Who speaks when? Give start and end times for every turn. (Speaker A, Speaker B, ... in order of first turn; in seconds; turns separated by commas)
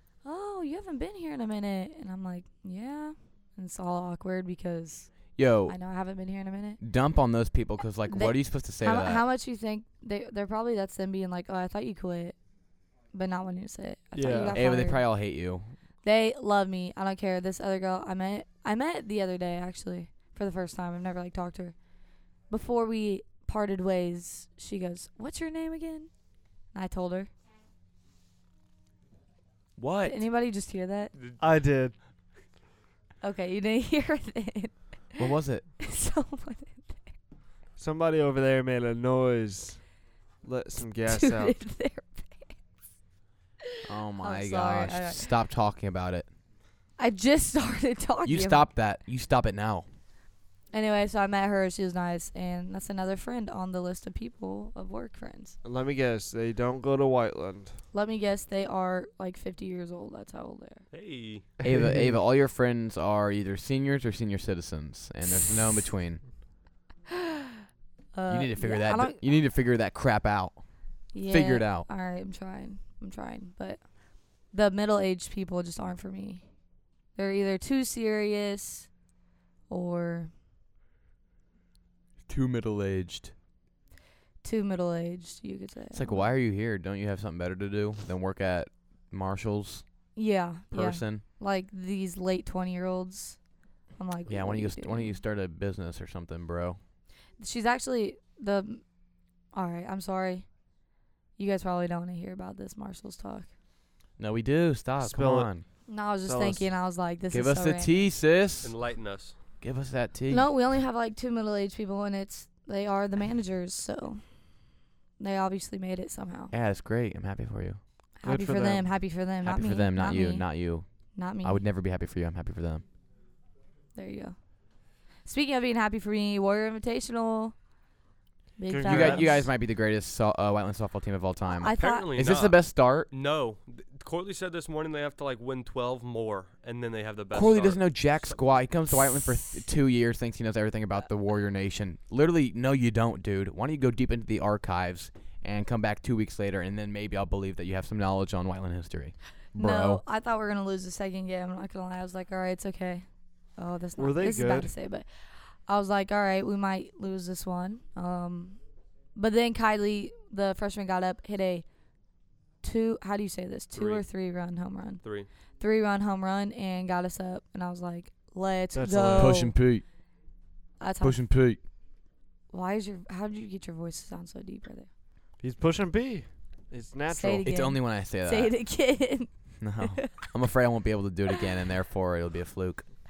Speaker A: 0.2-5.1, Speaker B: 5.4-5.8, Speaker A: 5.7-6.8, Speaker B: 6.8-9.2, Speaker A: 8.1-12.4, Speaker A: 13.1-15.1, Speaker C: 14.2-14.6, Speaker B: 14.5-15.7, Speaker A: 16.0-21.8, Speaker A: 22.5-26.1, Speaker A: 26.7-27.3, Speaker B: 29.8-30.2, Speaker A: 30.1-31.1, Speaker D: 31.1-31.4, Speaker C: 31.4-32.0, Speaker A: 33.2-35.3, Speaker B: 35.2-35.7, Speaker A: 35.8-37.1, Speaker C: 37.8-39.9, Speaker C: 40.4-41.6, Speaker A: 41.1-42.5, Speaker B: 43.9-46.3, Speaker A: 44.2-45.3, Speaker A: 47.0-48.7, Speaker B: 48.2-49.9, Speaker A: 50.7-55.6, Speaker C: 55.6-57.8, Speaker A: 57.9-60.8, Speaker D: 60.9-61.5, Speaker B: 61.6-66.2, Speaker C: 61.6-62.1, Speaker A: 68.1-69.2, Speaker B: 68.3-70.6, Speaker A: 71.1-73.9, Speaker B: 71.3-71.9, Speaker A: 74.5-76.5, Speaker A: 77.2-78.9, Speaker A: 79.7-80.3, Speaker B: 82.3-83.3, Speaker A: 84.4-86.3, Speaker B: 85.9-89.8, Speaker A: 90.2-93.4, Speaker B: 90.7-91.2, Speaker A: 94.0-95.2, Speaker B: 94.3-96.8, Speaker A: 97.4-98.8, Speaker A: 99.5-100.5, Speaker A: 101.4-103.5, Speaker B: 104.2-105.7, Speaker C: 105.0-105.5, Speaker A: 105.9-108.1, Speaker C: 106.2-106.7, Speaker B: 107.3-108.8, Speaker D: 108.6-109.3, Speaker B: 109.6-110.5, Speaker A: 110.3-114.3, Speaker A: 115.2-116.5, Speaker B: 116.5-117.8, Speaker A: 118.2-120.5, Speaker C: 118.2-118.9, Speaker B: 119.4-120.9, Speaker A: 121.2-121.6, Speaker B: 121.4-122.8, Speaker A: 124.0-124.4, Speaker A: 125.2-127.5, Speaker A: 128.6-129.5, Speaker C: 128.7-129.3, Speaker B: 128.9-133.1, Speaker A: 131.5-132.1, Speaker D: 131.8-138.4, Speaker B: 137.3-150.0, Speaker A: 149.6-153.1, Speaker A: 153.6-158.6, Speaker C: 154.0-154.7, Speaker A: 159.2-161.7, Speaker A: 162.6-165.0, Speaker D: 163.8-164.1, Speaker D: 165.0-165.3, Speaker A: 165.6-169.6, Speaker C: 168.7-169.4, Speaker B: 169.1-169.8, Speaker A: 170.8-171.2, Speaker B: 171.0-171.6, Speaker A: 172.5-174.9, Speaker C: 175.4-177.5, Speaker A: 177.1-180.1, Speaker B: 177.4-178.5, Speaker B: 179.6-182.9